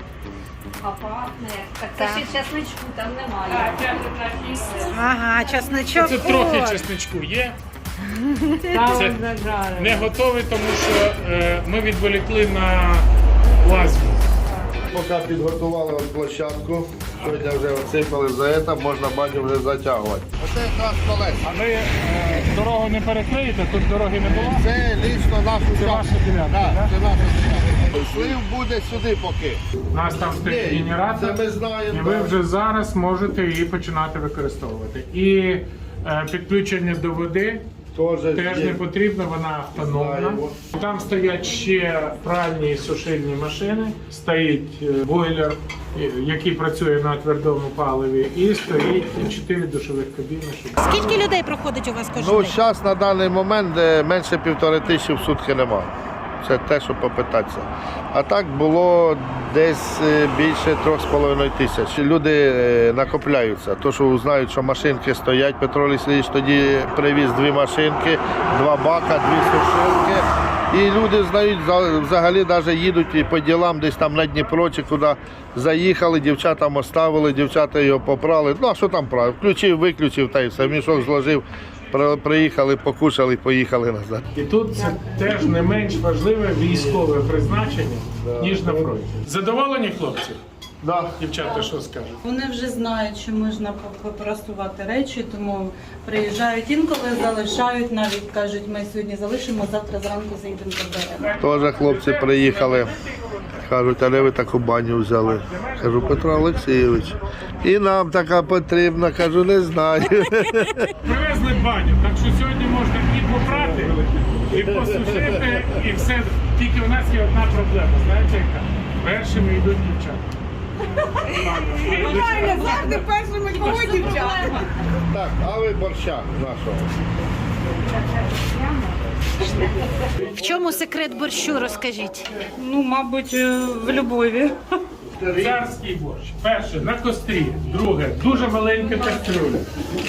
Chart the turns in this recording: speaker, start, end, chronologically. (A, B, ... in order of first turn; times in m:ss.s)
0:00.8-0:04.0 A
0:01.9-0:02.3 B
0:04.8-0:06.8 B
0:05.9-0:07.6 C
0:08.4-0:08.8 B
0:08.7-0:10.0 D
0:08.8-0:09.2 C
0:09.7-0:14.2 C
0:14.9-0:21.5 E
0:21.4-0:24.6 C
0:24.2-0:29.6 E
0:25.7-0:27.1 C
0:29.9-0:37.6 C
0:30.3-0:32.4 E
0:37.9-0:38.8 E
0:38.3-0:51.2 C
0:39.8-0:40.5 E
0:50.8-0:52.6 B
0:52.1-1:24.2 E
1:24.3-1:30.4 C
1:28.1-1:28.9 E
1:30.8-1:31.2 E
1:31.0-1:32.2 C
1:32.2-1:41.3 D
1:41.2-1:43.6 C
1:41.4-1:42.9 E
1:43.6-1:50.9 E
1:45.1-1:47.2 C
1:51.0-2:00.3 C
1:54.6-1:55.7 E
2:01.1-2:04.7 D
2:01.3-2:03.0 C
2:01.8-2:02.7 A
2:03.6-2:04.6 A
2:03.6-2:04.1 C
2:05.0-2:06.9 E
2:10.3-2:12.3 B
2:12.4-2:14.6 D
2:15.1-2:15.6 E
2:15.3-2:19.7 C